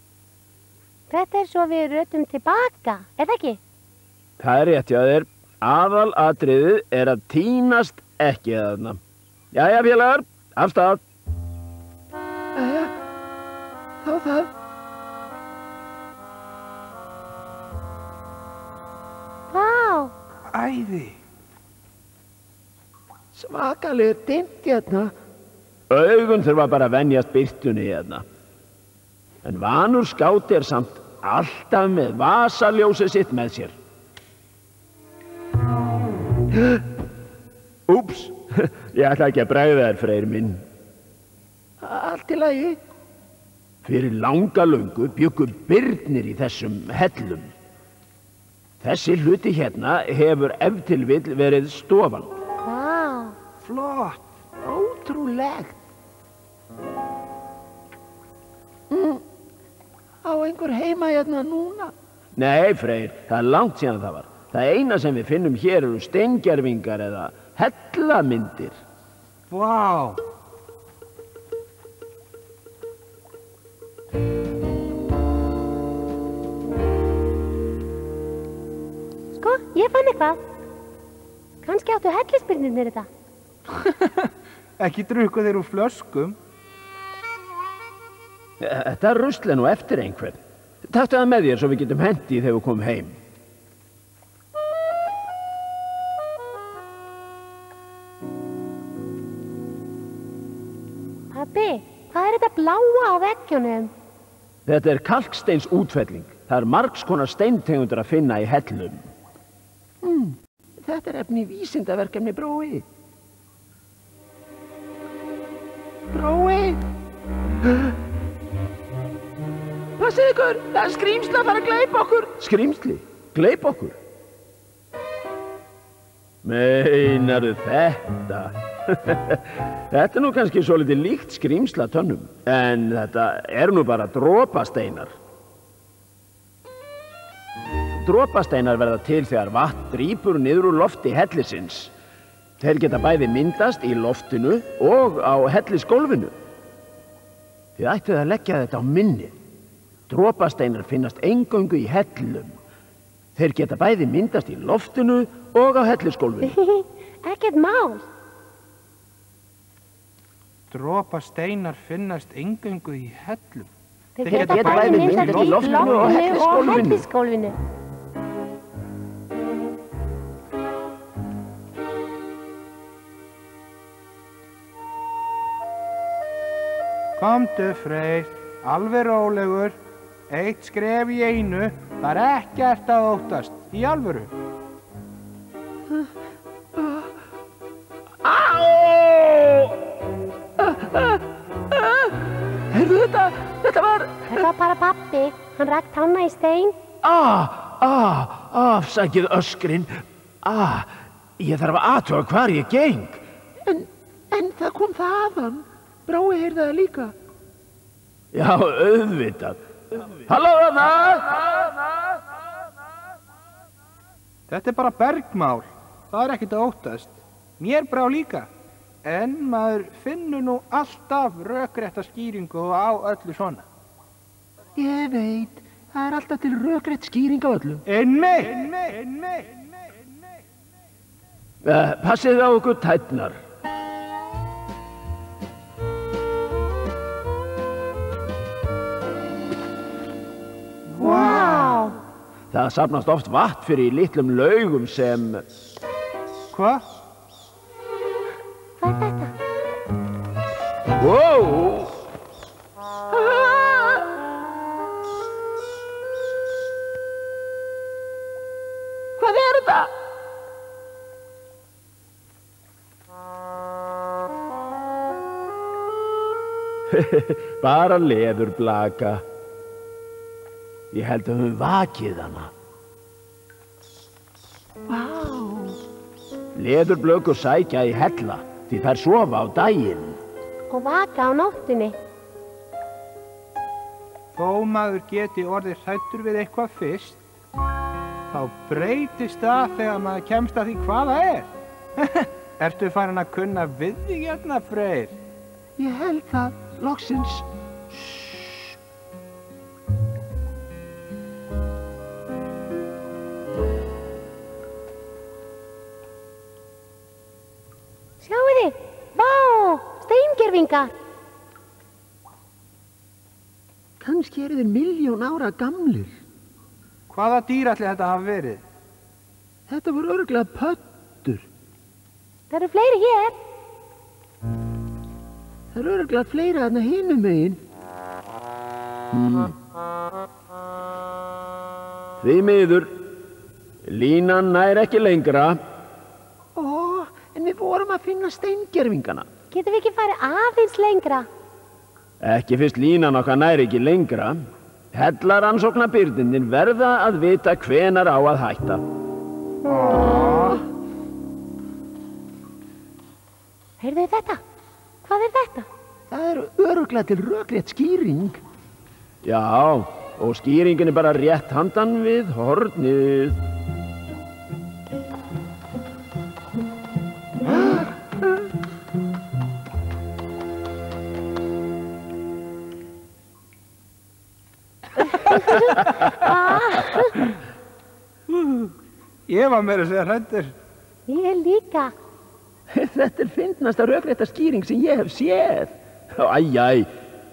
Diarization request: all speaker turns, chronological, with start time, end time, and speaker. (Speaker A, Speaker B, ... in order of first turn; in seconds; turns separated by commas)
Speaker A: 1.1-3.6, Speaker B: 4.4-9.0, Speaker B: 9.5-11.0, Speaker B: 12.6-12.9, Speaker B: 14.0-14.5, Speaker A: 19.5-20.1, Speaker C: 20.5-21.2, Speaker B: 23.3-25.1, Speaker B: 25.9-28.2, Speaker B: 29.4-33.8, Speaker B: 37.9-40.6, Speaker B: 41.8-42.8, Speaker B: 43.8-47.5, Speaker B: 48.8-52.3, Speaker A: 52.6-53.4, Speaker C: 53.6-54.2, Speaker B: 54.6-55.8, Speaker B: 58.9-59.2, Speaker B: 60.2-68.8, Speaker C: 69.5-70.2, Speaker A: 79.3-80.4, Speaker A: 81.6-83.1, Speaker C: 83.8-86.4, Speaker B: 88.6-93.2, Speaker A: 101.3-103.9, Speaker B: 104.7-109.1, Speaker B: 110.0-112.8, Speaker B: 116.1-116.8, Speaker B: 120.0-124.0, Speaker B: 126.4-135.1, Speaker B: 138.0-141.9, Speaker B: 142.6-146.3, Speaker B: 147.8-149.3, Speaker B: 150.1-152.5, Speaker B: 153.4-156.6, Speaker A: 156.4-158.1, Speaker C: 160.7-163.7, Speaker A: 164.2-167.6, Speaker C: 164.2-166.9, Speaker B: 164.2-167.1, Speaker C: 177.2-179.8, Speaker C: 180.3-184.3, Speaker B: 186.8-187.1, Speaker B: 188.2-189.8, Speaker B: 190.6-194.5, Speaker A: 194.3-196.8, Speaker B: 197.0-207.1, Speaker B: 208.3-211.8, Speaker C: 214.5-218.5, Speaker C: 219.0-223.7, Speaker B: 224.8-227.8, Speaker C: 227.9-229.6, Speaker B: 231.6-233.4, Speaker C: 240.9-241.7, Speaker A: 241.0-242.0, Speaker B: 242.5-245.4, Speaker C: 246.5-246.8, Speaker A: 248.8-249.3, Speaker B: 251.0-251.9, Speaker B: 253.1-254.1, Speaker B: 259.2-259.9, Speaker B: 266.9-269.2, Speaker B: 270.9-272.5, Speaker B: 274.9-275.8, Speaker B: 276.6-280.2, Speaker A: 280.7-282.0, Speaker C: 284.4-287.2, Speaker C: 288.3-295.2, Speaker B: 295.8-298.7, Speaker A: 308.2-310.9, Speaker B: 314.0-316.1, Speaker C: 317.1-318.6, Speaker B: 319.7-321.5, Speaker A: 322.5-323.4, Speaker B: 325.7-327.6, Speaker B: 329.1-329.5, Speaker B: 332.2-333.0, Speaker B: 333.8-335.6, Speaker B: 336.6-339.3, Speaker A: 339.5-341.3, Speaker B: 342.2-344.4, Speaker B: 344.9-348.8, Speaker C: 349.7-350.6, Speaker A: 353.8-354.4, Speaker A: 355.0-355.7, Speaker B: 356.1-358.4, Speaker B: 359.2-363.4, Speaker B: 367.5-367.9, Speaker A: 375.0-377.2, Speaker C: 379.3-380.5, Speaker A: 381.1-381.9, Speaker B: 382.7-386.9